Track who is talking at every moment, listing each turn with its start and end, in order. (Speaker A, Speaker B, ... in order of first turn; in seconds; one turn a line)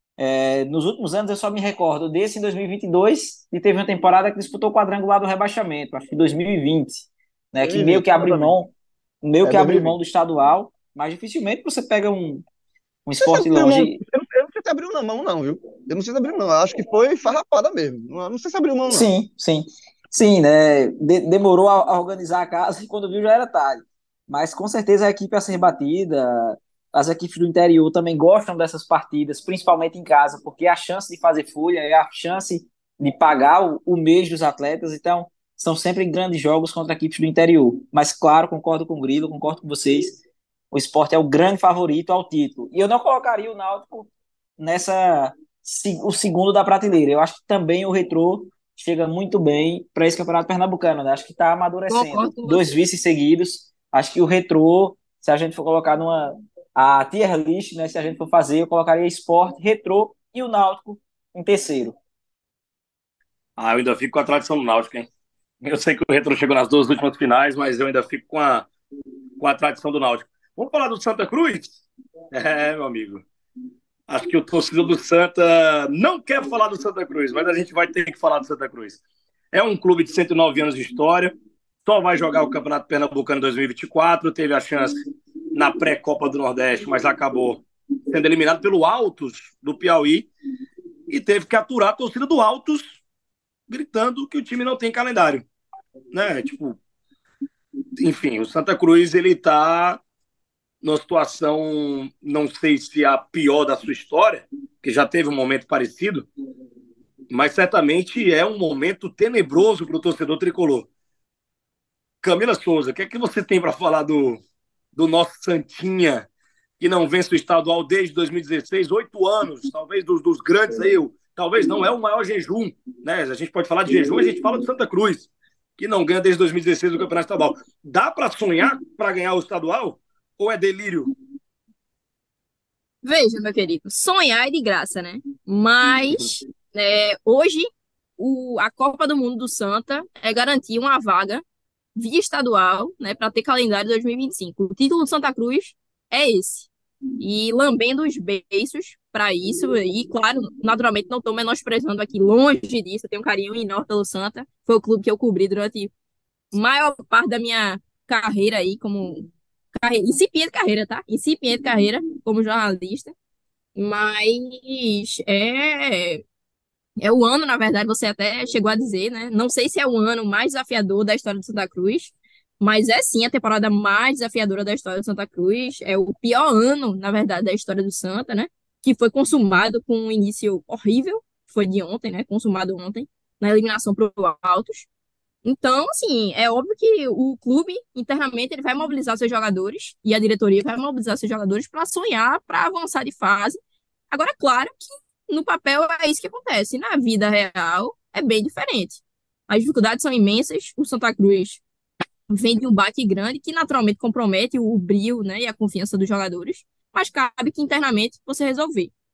Speaker A: 0.2-12.4
Speaker B: 7.6-8.6
Speaker B: 9.4-10.0
Speaker A: 13.1-14.0
Speaker B: 13.2-19.1
Speaker A: 18.9-40.2
Speaker A: 40.7-62.0
Speaker C: 51.9-52.7
Speaker D: 63.6-65.1
Speaker D: 65.6-68.7
Speaker D: 69.4-71.7
Speaker D: 72.3-73.2
Speaker D: 74.1-79.0
Speaker D: 79.5-81.3
Speaker D: 81.8-85.0
Speaker D: 85.5-90.3
Speaker D: 91.1-93.0
Speaker D: 93.7-95.5
Speaker D: 96.1-96.8
Speaker D: 98.0-100.0
Speaker D: 100.8-106.3
Speaker D: 107.3-110.9
Speaker D: 112.2-114.4
Speaker D: 115.0-116.3
Speaker D: 116.8-131.1
Speaker C: 133.0-141.4
Speaker C: 142.0-155.9
Speaker C: 156.5-163.1
Speaker C: 163.8-166.2
Speaker C: 167.0-184.9
Speaker C: 185.4-193.6
Speaker C: 194.1-201.6
Speaker C: 202.3-208.9